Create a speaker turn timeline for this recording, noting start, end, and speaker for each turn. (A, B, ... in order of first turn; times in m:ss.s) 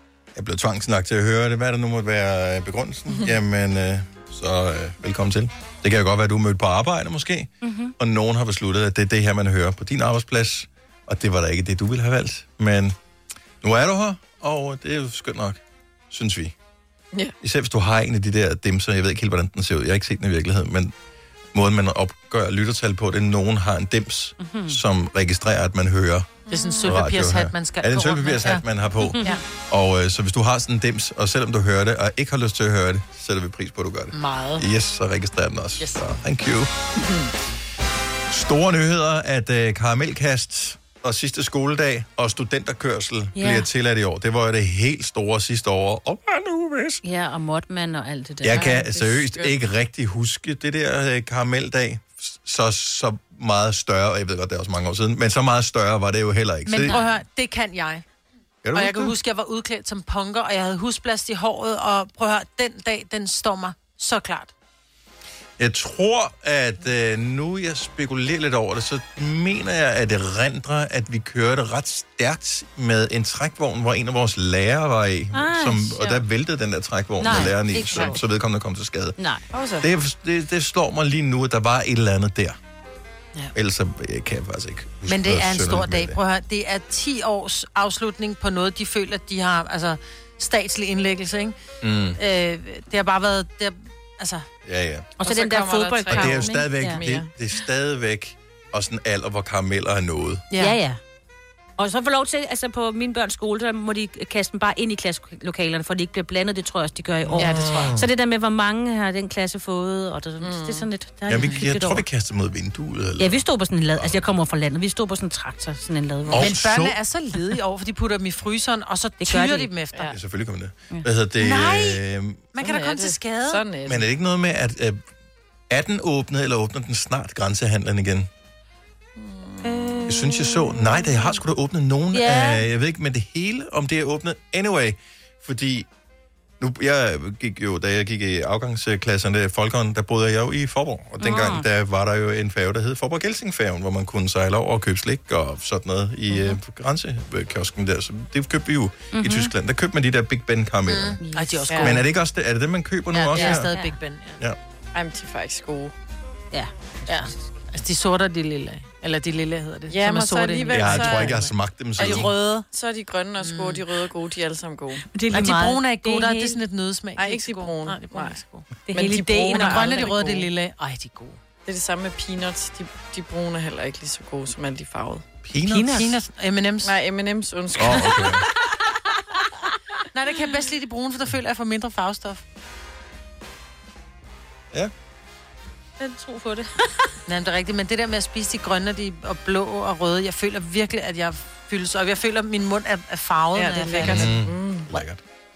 0:00.3-0:13.0 A
0:07.6-0:07.9 B
0:13.6-0:16.5 A
0:17.4-0:20.9 A
0:21.5-0:26.3 A
0:24.4-0:24.8 B
0:26.5-0:26.9 C
0:26.5-0:28.6 D
0:26.8-0:36.7 A
0:29.0-0:29.4 B
0:34.1-0:34.6 D
0:37.0-0:37.3 C
0:38.3-0:47.0 A
0:43.4-0:43.6 B
0:47.0-0:49.0 B
0:48.4-0:57.0 A
0:48.5-0:49.6 C
0:56.6-0:58.0 D
0:58.6-0:59.1 A
0:58.7-1:04.5 D
1:05.6-1:19.2 A
1:15.3-1:16.2 B
1:17.2-1:18.2 B
1:17.2-1:18.2 D
1:19.5-1:19.9 C
1:19.8-1:22.6 A
1:23.5-1:26.2 A
1:25.0-1:31.6 D
1:31.8-1:32.2 A
1:32.2-1:34.4 D
1:34.6-1:35.1 A
1:35.2-1:37.0 B
1:35.2-1:37.3 C
1:36.1-1:40.4 A
1:40.5-1:40.8 D
1:40.6-1:41.0 B
1:41.8-1:52.0 B
1:47.2-1:48.1 A
1:47.4-1:48.0 D
1:50.4-1:50.9 C
1:51.3-1:53.4 A
1:53.2-1:56.6 B
1:54.0-1:54.2 A
1:56.3-1:57.0 A
1:56.3-2:00.1 D
1:59.2-1:59.7 B
2:00.1-2:02.4 A
2:01.4-2:02.0 D
2:02.5-2:03.6 D
2:02.6-2:04.0 C
2:03.8-2:05.0 A
2:05.7-2:08.3 A
2:09.2-2:10.2 C
2:09.6-2:10.5 B
2:10.1-2:15.9 A
2:12.1-2:12.6 B
2:16.6-2:31.2 A
2:21.2-2:21.6 B
2:29.1-2:29.5 B
2:30.9-2:32.0 D
2:31.2-2:31.9 B
2:31.8-2:33.7 A
2:33.1-2:34.4 D
2:33.3-2:33.6 C
2:34.9-2:35.9 C
2:36.5-2:37.4 B
2:37.1-2:42.6 D
2:39.9-2:41.4 C
2:40.7-2:42.3 A
2:42.0-2:45.0 C
2:43.4-2:43.8 D
2:45.1-2:46.6 B
2:45.3-2:51.4 D
2:47.2-2:48.4 C
2:48.8-2:50.0 B
2:48.9-2:50.4 C
2:51.6-2:55.2 C
2:55.4-2:56.0 A
2:55.7-2:56.1 B
2:55.8-2:56.9 D
2:56.8-2:58.4 C
2:57.8-2:58.5 A
3:00.1-3:02.4 D
3:06.0-3:07.0 B
3:07.3-3:14.3 D
3:13.5-3:14.9 C
3:14.0-3:15.2 A